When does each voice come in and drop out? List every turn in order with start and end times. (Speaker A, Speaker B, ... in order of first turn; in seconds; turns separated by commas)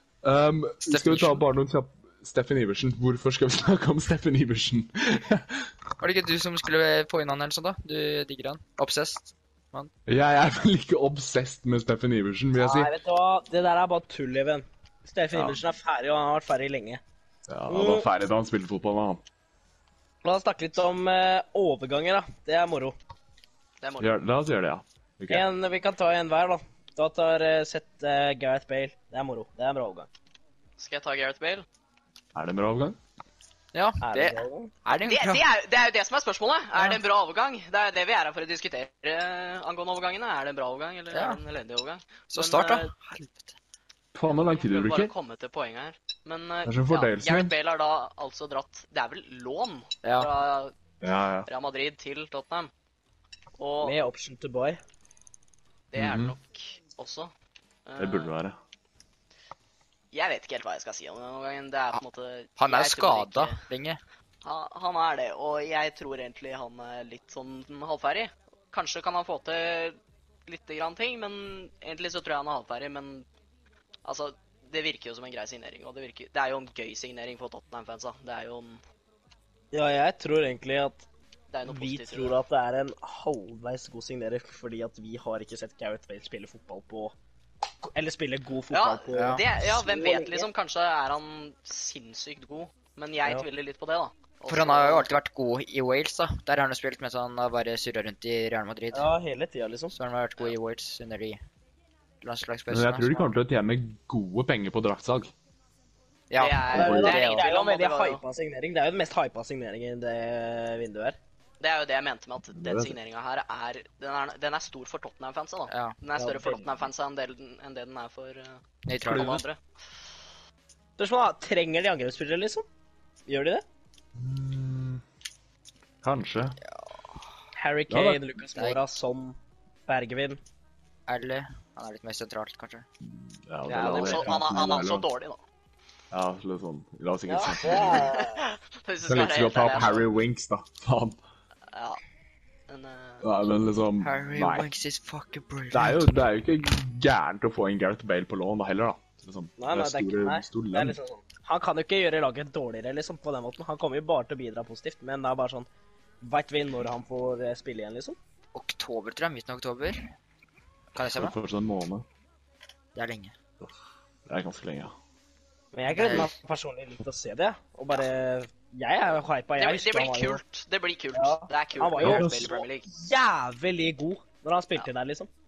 Speaker A: 0.2-5.7, Speaker B: 0.8-1.4, Speaker B: 6.0-9.9, Speaker A: 10.1-12.9, Speaker C: 12.6-17.0, Speaker A: 15.3-15.6, Speaker A: 17.5-19.2, Speaker C: 17.7-18.1, Speaker C: 20.2-22.9, Speaker D: 23.8-24.2, Speaker A: 24.0-25.4, Speaker C: 25.3-30.1, Speaker D: 30.8-31.6, Speaker A: 32.3-33.0, Speaker B: 33.7-35.4, Speaker C: 34.0-34.7, Speaker D: 35.0-42.9, Speaker B: 41.1-41.4, Speaker B: 42.3-43.5, Speaker A: 44.1-45.1, Speaker D: 44.4-50.7, Speaker A: 46.6-47.5, Speaker B: 50.0-50.3, Speaker A: 51.0-51.5, Speaker D: 51.5-52.7, Speaker D: 53.6-54.0, Speaker C: 53.8-54.8, Speaker D: 55.9-57.3, Speaker A: 56.0-56.3, Speaker D: 57.9-58.3, Speaker A: 58.0-58.5, Speaker D: 60.1-63.6, Speaker B: 62.6-64.0, Speaker D: 64.4-73.2, Speaker D: 74.0-78.8, Speaker C: 79.7-81.1, Speaker D: 81.5-82.4, Speaker C: 81.7-87.1, Speaker C: 87.8-90.5, Speaker D: 88.7-95.1, Speaker B: 89.1-89.4, Speaker B: 94.5-99.1, Speaker C: 98.9-100.0, Speaker B: 99.9-101.4, Speaker B: 102.2-103.3, Speaker A: 102.7-105.3, Speaker B: 106.3-107.4, Speaker D: 106.4-108.2, Speaker A: 106.7-107.0, Speaker C: 106.7-111.2, Speaker D: 111.6-119.6, Speaker A: 112.5-112.9, Speaker B: 115.7-115.9, Speaker C: 116.2-116.7, Speaker B: 118.8-119.4, Speaker C: 121.0-122.6, Speaker C: 123.3-123.6, Speaker A: 124.2-125.0, Speaker A: 126.0-126.6, Speaker B: 126.7-127.0, Speaker C: 127.5-130.4, Speaker A: 127.9-128.2, Speaker B: 131.1-132.8, Speaker A: 133.1-135.0, Speaker C: 133.7-134.4, Speaker D: 133.8-135.4, Speaker A: 136.1-138.1, Speaker C: 137.3-138.4, Speaker D: 137.7-140.1, Speaker A: 139.1-141.2, Speaker D: 141.7-142.0, Speaker D: 142.7-143.2, Speaker A: 143.2-144.7, Speaker B: 144.0-146.1, Speaker A: 145.7-150.9, Speaker C: 149.6-155.7, Speaker C: 156.2-158.2, Speaker B: 158.5-160.0, Speaker B: 160.9-161.3, Speaker A: 161.1-162.0, Speaker B: 162.9-163.3, Speaker A: 164.3-164.9, Speaker C: 165.7-170.4, Speaker B: 165.9-166.3, Speaker D: 169.6-172.9, Speaker C: 171.1-175.3, Speaker A: 172.0-172.6